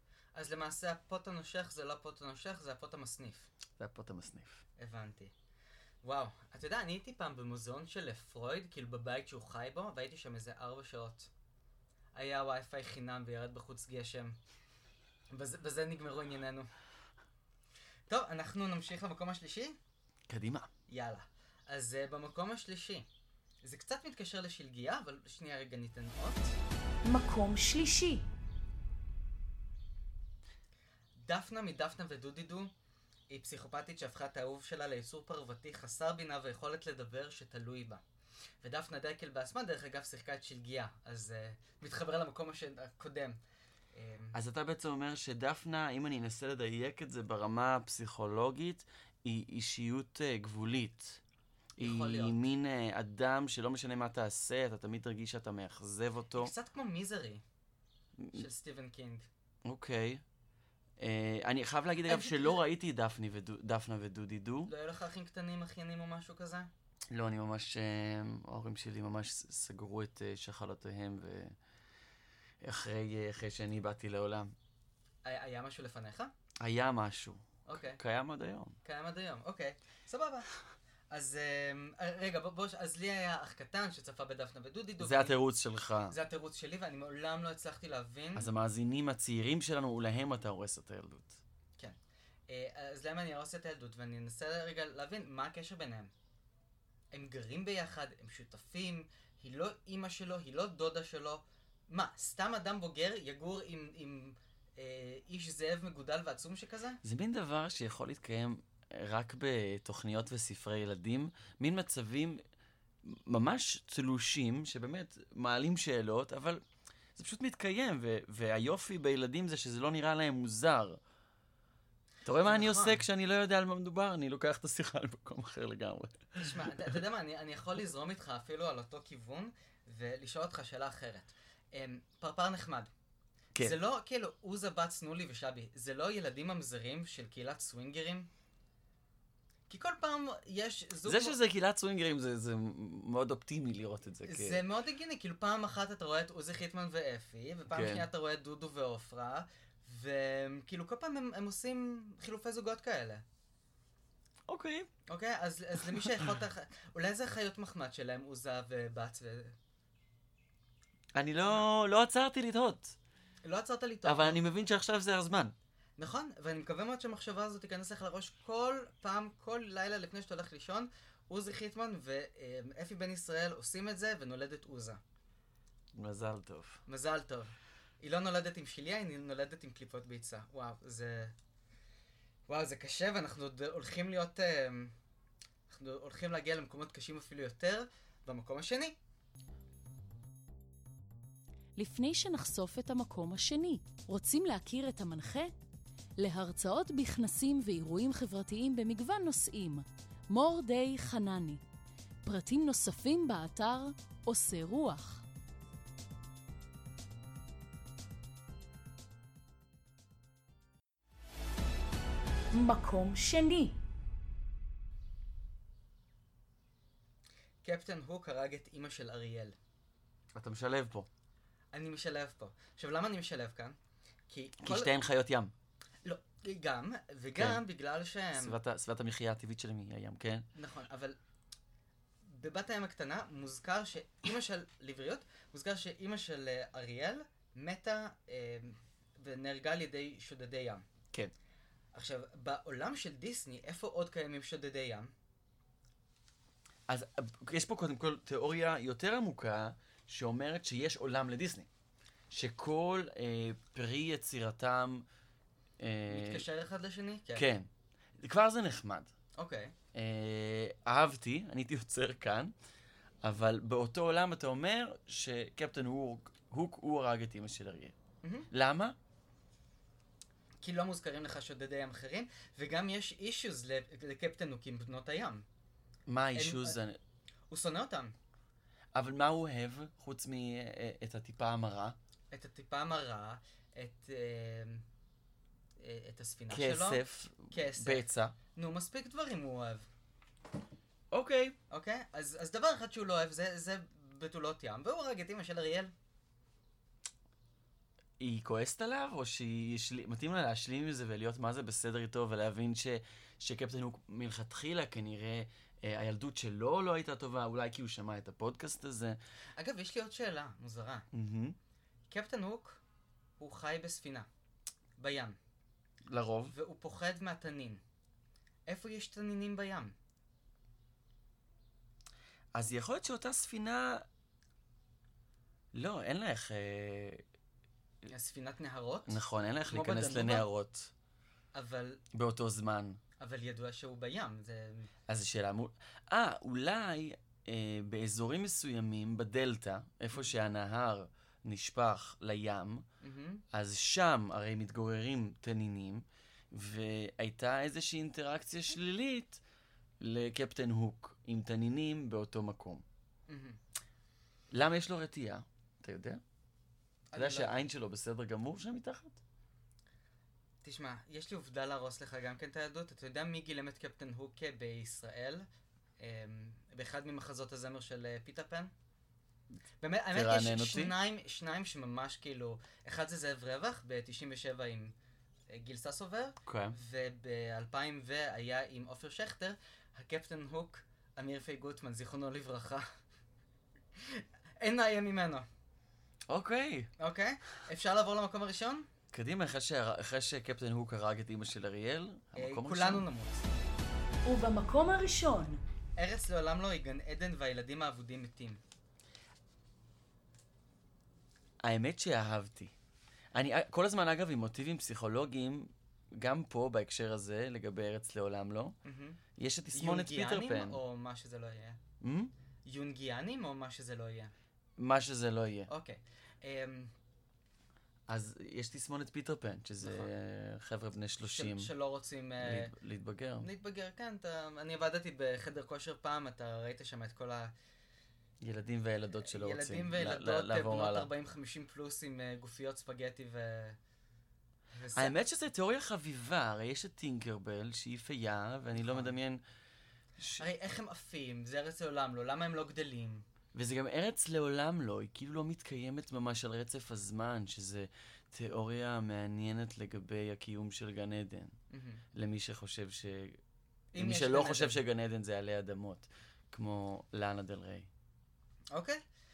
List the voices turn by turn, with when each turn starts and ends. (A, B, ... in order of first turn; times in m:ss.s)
0:00.3-0:03.5 A
0:03.8-0:04.6 B
0:04.8-0:05.3 A
0:06.0-0:11.3 A
0:12.1-0:14.4 A
0:15.3-0:16.7 A
0:18.1-0:19.8 A
0:20.3-0:20.7 B
0:20.9-0:23.1 A
0:23.6-0:26.6 A
0:27.0-0:28.2 C
0:31.2-0:32.7 A
0:33.3-0:38.0 A
0:38.6-0:43.4 A
0:43.9-0:44.4 A
0:44.3-0:51.2 B
0:51.8-0:56.5 B
0:51.8-0:52.4 A
0:56.4-0:57.4 A
0:58.2-0:58.4 B
0:58.3-0:59.2 A
0:59.6-1:00.2 B
1:01.0-1:04.7 B
1:02.1-1:02.6 A
1:04.7-1:06.7 A
1:07.1-1:11.6 B
1:12.6-1:14.5 B
1:15.2-1:16.3 A
1:16.6-1:18.8 B
1:17.6-1:18.0 A
1:18.8-1:20.5 A
1:21.1-1:25.4 A
1:25.0-1:26.2 B
1:26.1-1:28.5 A
1:28.4-1:31.4 B
1:32.5-1:36.1 A
1:37.1-1:47.0 A
1:47.0-1:52.4 B
1:53.0-1:56.6 B
1:57.1-2:01.0 B
2:02.2-2:06.9 B
2:02.4-2:03.0 A
2:06.4-2:12.9 A
2:13.6-2:18.3 A
2:19.7-2:21.4 A
2:21.0-2:24.6 B
2:24.2-2:33.2 A
2:27.7-2:28.1 B
2:34.5-2:34.9 B
2:35.1-2:39.5 A
2:41.1-2:43.0 B
2:43.4-2:44.4 A
2:44.0-2:45.5 B
2:46.0-2:55.0 A
2:55.9-2:56.8 B
2:56.9-3:01.3 A
3:02.5-3:04.9 A
3:05.7-3:09.0 A
3:11.8-3:15.5 C
3:16.2-3:21.6 C
3:22.2-3:25.2 C
3:32.5-3:33.8 C
3:37.6-3:39.6 A
3:40.3-3:41.1 B
3:41.7-3:43.8 A
3:44.3-3:44.9 A
3:44.6-3:45.5 B
3:46.0-3:48.6 A
3:47.4-3:47.6 B
3:48.4-3:50.5 B
3:50.5-3:51.2 A
3:52.2-4:00.8 A
4:01.9-4:05.1 A
4:06.9-4:11.7 B
4:12.3-4:15.1 B
4:15.8-4:16.4 B
4:16.1-4:17.5 A
4:17.3-4:19.1 B
4:19.4-4:19.7 A
4:19.9-4:22.5 B
4:23.2-4:28.0 B
4:28.2-4:28.5 A
4:28.5-4:29.0 B
4:30.6-4:35.4 A
4:36.1-4:37.0 B
4:36.3-4:36.8 A
4:37.5-4:38.1 A
4:38.9-4:42.0 B
4:42.3-4:44.8 A
4:45.8-4:49.9 A
4:46.5-4:48.4 B
4:51.1-4:51.6 B
4:51.7-4:55.9 A
4:58.2-5:09.2 B
5:09.6-5:11.1 A
5:11.1-5:11.6 B
5:12.1-5:12.8 A
5:13.4-5:14.3 A
5:15.0-5:15.4 A
5:16.1-5:16.5 B
5:16.5-5:17.8 A
5:18.7-5:20.0 A
5:22.5-5:24.0 B
5:25.7-5:27.2 B
5:28.1-5:30.5 A
5:29.0-5:30.9 B
5:31.5-5:32.0 A
5:32.1-5:33.0 B
5:33.2-5:34.9 A
5:35.1-5:42.8 B
5:43.0-5:43.4 A
5:43.5-5:49.4 B
5:50.0-5:52.8 B
5:53.3-5:53.6 A
5:54.5-5:56.2 B
5:57.1-5:57.6 A
5:57.1-5:59.2 B
6:00.6-6:05.4 A
6:06.0-6:08.7 A
6:09.8-6:14.9 A
6:10.1-6:10.9 B
6:15.5-6:22.8 A
6:16.4-6:16.8 B
6:24.0-6:25.5 A
6:26.3-6:26.9 B
6:27.0-6:28.9 A
6:29.1-6:33.1 B
6:32.4-6:33.5 A
6:34.2-6:35.6 C
6:36.0-6:38.6 A
6:41.6-6:42.7 B
6:43.3-6:48.8 B
6:48.8-6:49.2 A
6:49.4-6:50.8 B
6:49.7-6:51.8 A
6:52.0-6:52.3 B
6:52.6-6:54.3 A
6:54.8-6:55.7 B
6:55.7-6:56.9 A
6:58.1-7:01.7 B
6:59.8-7:00.1 A
7:01.2-7:02.7 A
7:02.4-7:03.5 B
7:03.4-7:07.5 A
7:08.4-7:11.1 B
7:09.2-7:13.8 A
7:14.7-7:15.1 A
7:14.9-7:19.4 B
7:18.8-7:19.1 A
7:20.2-7:20.4 B
7:20.4-7:23.2 A
7:23.5-7:31.5 B
7:31.7-7:32.0 A
7:32.1-7:33.4 B
7:33.9-7:34.8 A
7:34.0-7:37.9 B
7:38.7-7:39.0 A